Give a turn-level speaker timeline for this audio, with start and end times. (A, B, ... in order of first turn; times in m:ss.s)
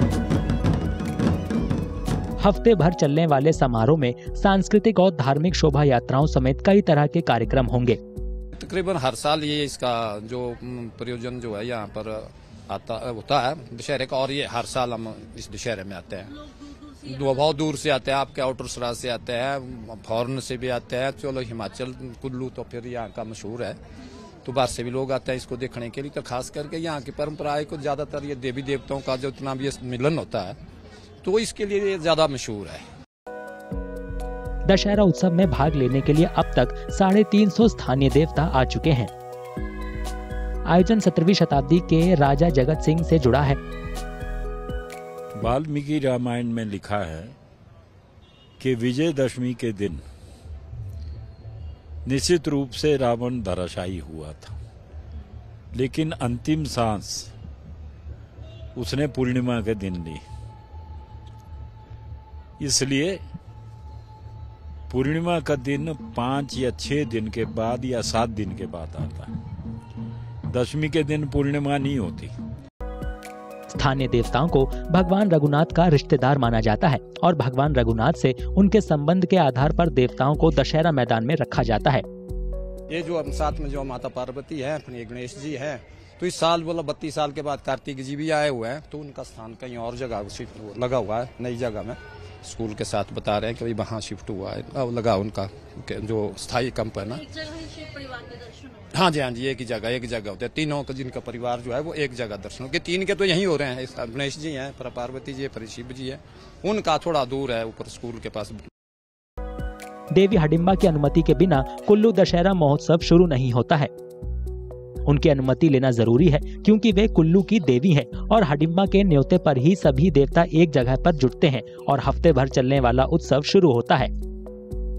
0:02.4-0:08.0 A
0:08.6-0:16.3 B
0:17.0-0:23.8 B
0:24.4-0:30.6 B
0:31.2-0:32.9 B
0:34.6-0:39.1 A
0:40.7-0:43.6 A
0:45.4-0:47.4 C
0:48.6-0:50.0 C
0:52.0-0:54.5 C
0:55.7-0:57.3 C
0:58.8-1:00.2 C
1:02.6-1:03.2 C
1:04.9-1:09.3 C
1:10.5-1:12.3 C
1:13.7-1:22.0 A
1:22.9-1:48.6 B
1:50.1-1:53.9 A
1:55.1-2:04.1 A